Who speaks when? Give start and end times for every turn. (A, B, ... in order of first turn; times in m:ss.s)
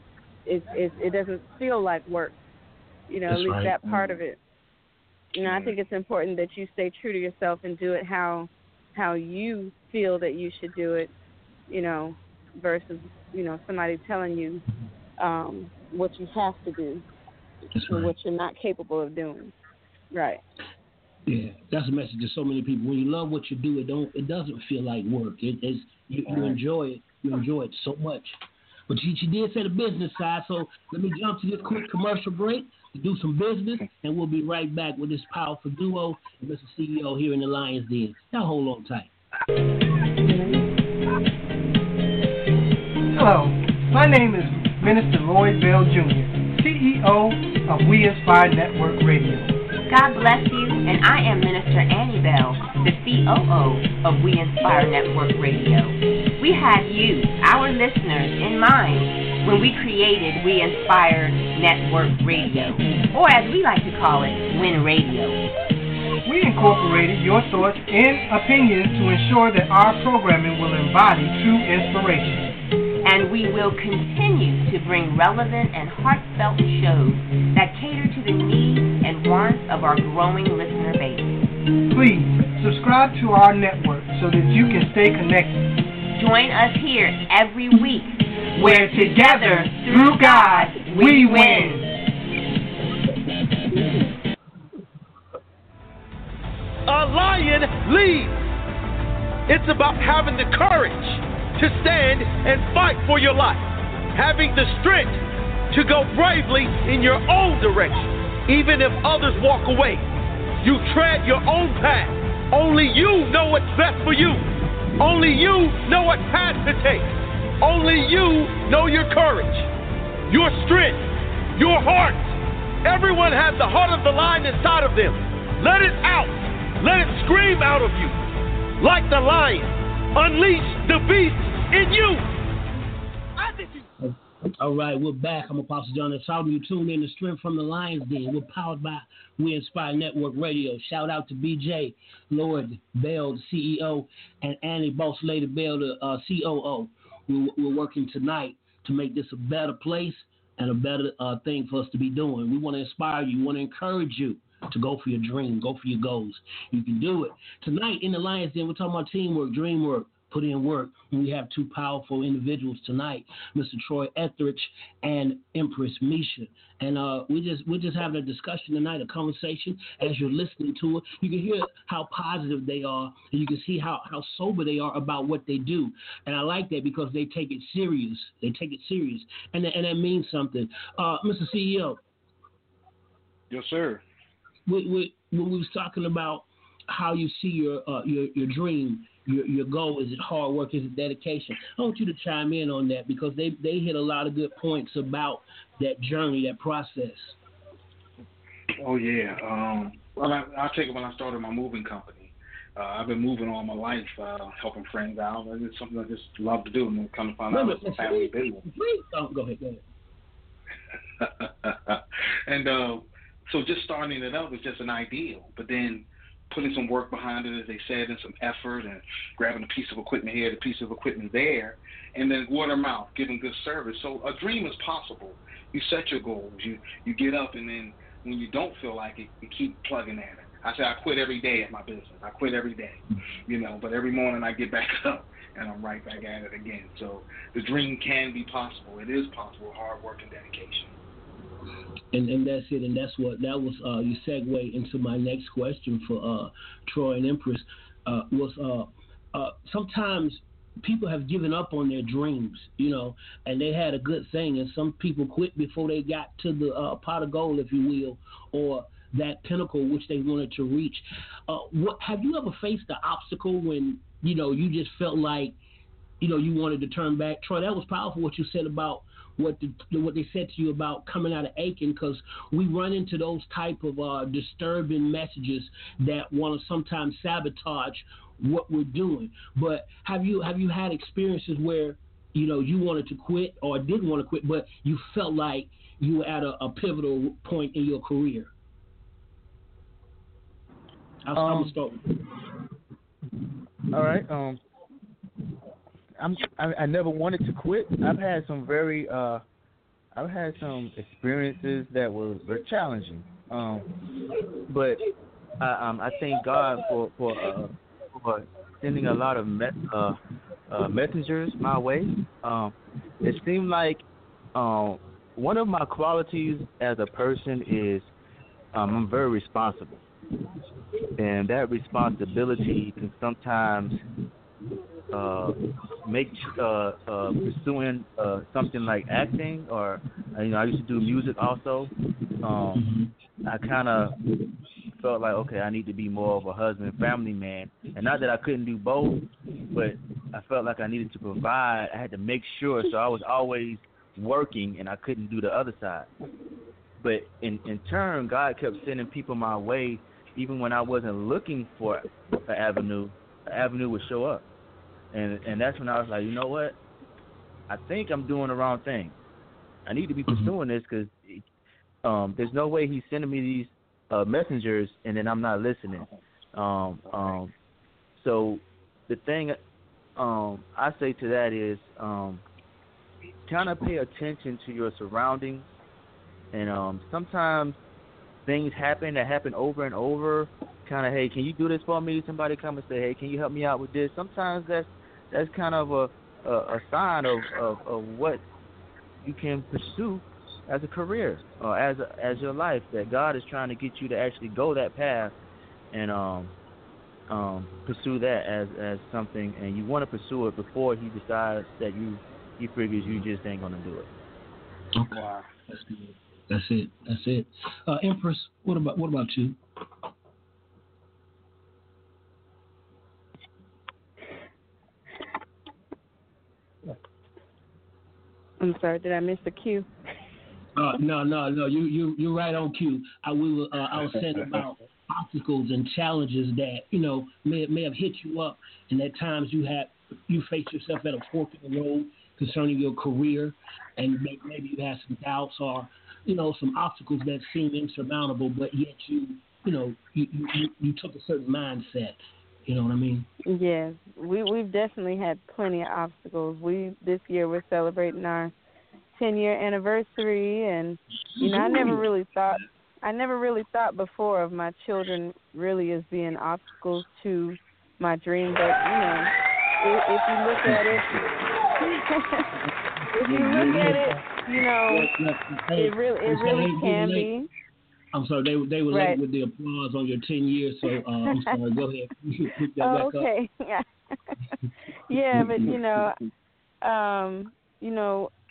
0:00.4-0:02.4 A
0:03.1-0:04.4 A
0:03.3-0:04.1 B
0:05.3-0:11.1 A
0:05.4-0:05.7 C
0:11.7-0:14.6 A
0:15.2-0:17.0 A
0:17.7-0:18.1 B
0:17.9-0:19.5 A
0:20.1-0:20.4 A
0:21.3-0:28.4 B
0:28.9-0:39.1 B
0:40.2-0:40.6 A
0:43.1-0:49.5 D
0:49.9-1:05.4 E
1:06.2-1:12.4 D
1:13.0-1:21.3 E
1:21.9-1:25.6 D
1:26.1-1:31.8 E
1:28.6-1:31.9 D
1:36.9-1:38.4 F
1:39.5-1:50.1 F
1:50.6-1:54.4 F
1:55.0-1:57.1 F
1:57.6-1:59.7 F
2:00.3-2:08.2 F
2:08.8-2:12.2 F
2:13.4-2:13.8 F
2:14.0-3:02.0 B
3:03.5-3:04.0 C
3:04.6-3:17.4 B
3:18.8-3:28.6 C
3:27.5-3:29.8 B
3:31.2-4:00.9 C
4:02.1-4:25.6 B
4:26.2-4:48.5 B
4:51.2-4:52.0 B
4:51.4-4:51.7 G
4:53.9-4:54.6 G
4:56.2-4:59.4 G
5:00.1-5:03.9 G
5:04.6-5:05.0 G
5:05.6-5:10.2 G
5:10.7-5:14.0 G
5:14.5-5:18.1 G
5:18.7-5:20.0 G
5:21.2-5:24.0 G
5:25.1-5:32.9 G
5:32.7-5:33.1 B
5:33.4-5:34.2 G
5:35.0-5:46.1 G
5:47.0-5:54.4 G
5:55.1-5:56.8 G
5:57.7-5:59.2 G
5:59.8-6:01.4 G
6:00.3-6:00.5 B
6:02.0-6:07.5 G
6:08.2-6:09.6 G
6:10.2-6:12.4 G
6:13.5-6:15.7 G
6:16.5-6:17.8 G
6:18.4-6:28.4 G
6:29.2-6:35.3 G
6:35.9-6:36.5 G
6:37.3-6:44.1 G
6:44.9-6:49.6 B
6:45.1-6:45.5 C
6:58.6-6:59.9 A
7:00.8-7:23.3 B
7:23.4-7:28.5 A
7:29.1-7:41.0 A
7:31.4-7:32.0 B
7:40.6-7:41.2 B
7:41.9-7:42.5 A
7:43.1-7:45.1 A
7:43.2-7:44.2 B
7:44.9-7:47.3 B
7:45.7-7:47.5 A
7:48.1-7:53.3 B
7:48.9-7:49.2 A
7:52.8-7:54.4 A
7:55.1-7:56.2 A
7:55.3-7:55.8 B
7:56.8-7:58.3 A